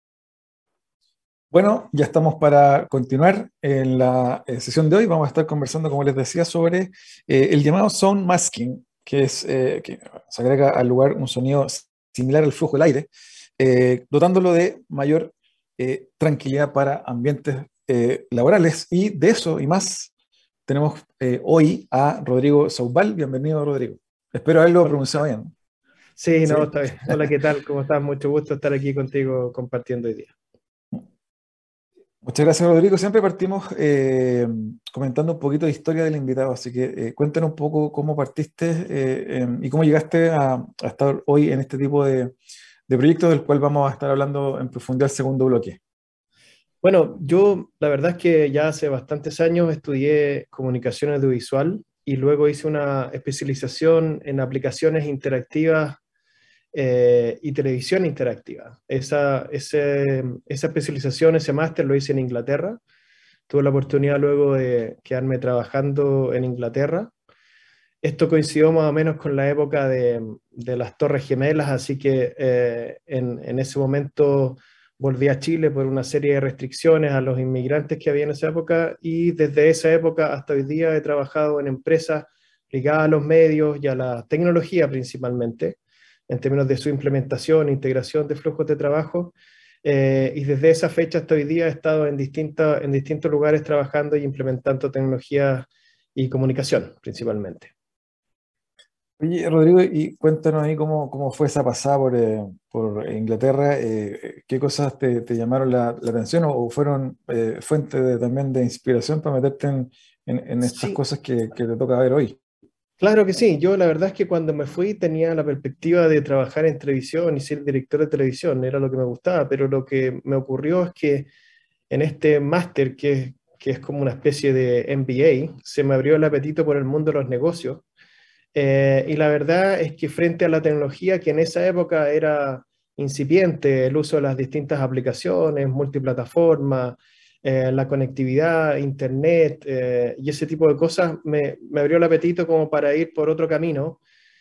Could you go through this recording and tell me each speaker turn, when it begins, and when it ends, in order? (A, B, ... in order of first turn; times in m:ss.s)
0:01.5-0:20.1 A
0:20.7-0:25.5 A
0:26.2-0:30.3 B
0:26.5-0:27.3 A
0:32.2-0:42.4 A
0:42.9-0:45.8 A
0:46.8-0:56.0 B
0:56.7-1:02.8 B
1:03.5-1:07.1 B
1:08.0-1:25.8 B
1:26.3-1:29.3 B
1:29.8-1:37.7 B
1:39.2-1:52.4 A
1:53.0-2:01.3 B
2:01.9-2:07.8 B
2:08.6-2:24.0 B